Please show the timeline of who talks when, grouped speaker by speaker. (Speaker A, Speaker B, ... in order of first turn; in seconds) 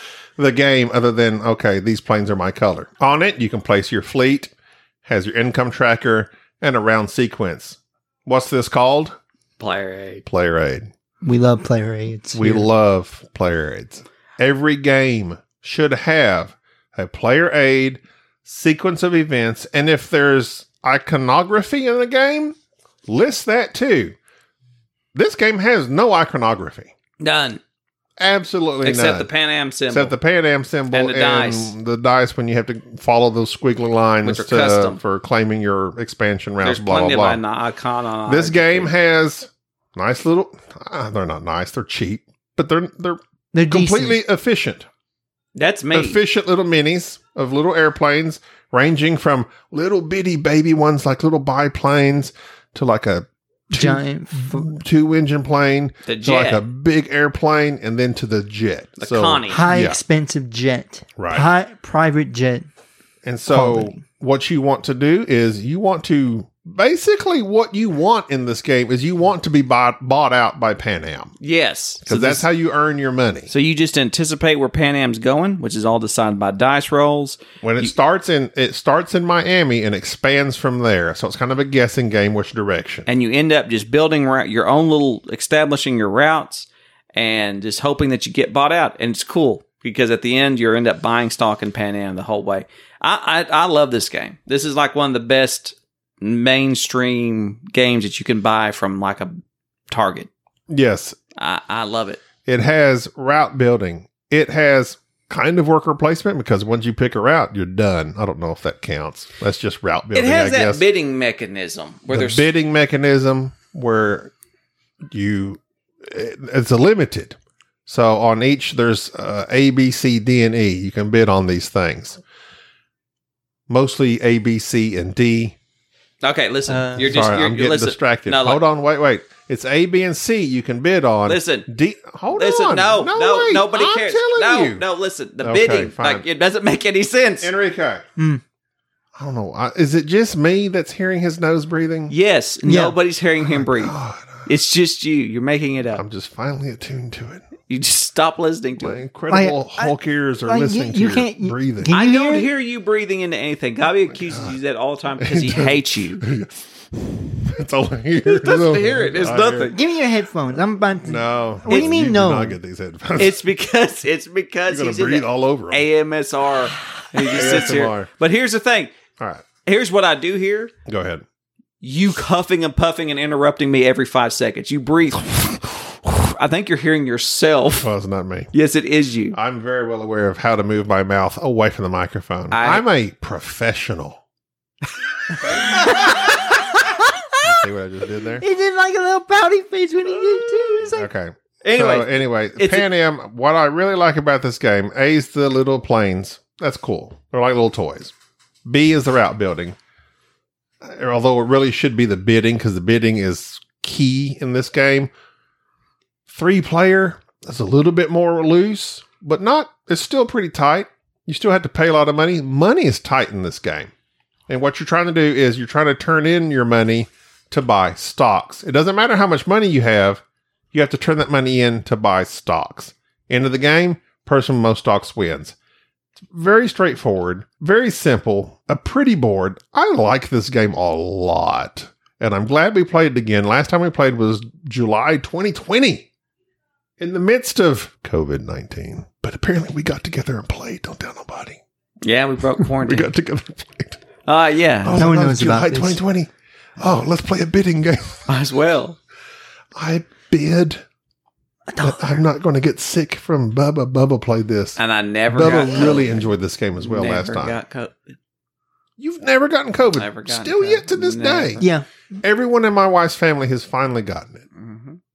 Speaker A: 0.4-4.5, 5.0-9.2, 10.3-10.9, 12.3-24.1, 25.1-26.9, 28.2-29.3, 29.9-37.4, 38.3-44.9, 45.9-60.0, 61.2-61.5, 63.2-71.3, 72.0-73.5, 77.6-83.1, 100.7-101.2, 102.5-110.8, 112.1-114.3, 115.1-122.2, 123.7-125.6, 126.9-134.8, 135.4-136.2, 137.4-138.0, 139.2-142.1, 143.4-144.5, 145.9-147.4, 148.8-151.9, 154.1-154.6, 155.2-159.7, 161.0-163.4, 164.7-165.9, 167.2-168.1, 169.2-169.4, 170.9-171.2, 177.8-178.5, 179.3-184.2, 187.4-188.4, 190.9-198.1, 198.7-199.8, 200.8-205.1, 206.3-213.9, 214.5-225.6, 226.3-236.1, 237.0-241.6, 242.6-244.0, 244.8-248.3, 249.8-250.8, 251.8-257.6, 259.0-261.6, 262.2-264.4
Speaker B: 9.6-10.2, 27.2-27.6, 28.8-30.1, 30.9-31.8, 34.2-35.0, 36.6-38.9, 45.5-46.2, 56.1-56.6, 59.0-59.6, 71.4-72.5, 73.5-77.9, 83.1-100.3, 101.4-102.2, 110.1-112.5, 126.2-128.6, 131.3-131.7, 132.3-137.5, 142.1-146.0, 147.7-149.0, 151.9-156.2, 158.2-159.8, 163.2-168.9, 169.7-170.7, 171.8-177.9, 178.5-179.4, 182.5-182.8, 185.7-186.1, 191.6-192.9, 242.0-243.1, 244.2-245.0, 248.3-249.0, 254.8-258.0, 259.9-261.6, 264.5-265.0
Speaker C: 11.2-12.7, 43.5-44.2, 53.7-54.7, 59.5-62.7, 63.5-64.0, 138.2-138.4, 142.7-142.9, 149.3-152.5, 159.7-162.6, 185.6-187.5, 188.4-191.1, 245.0-246.0, 251.7-252.2, 261.6-261.9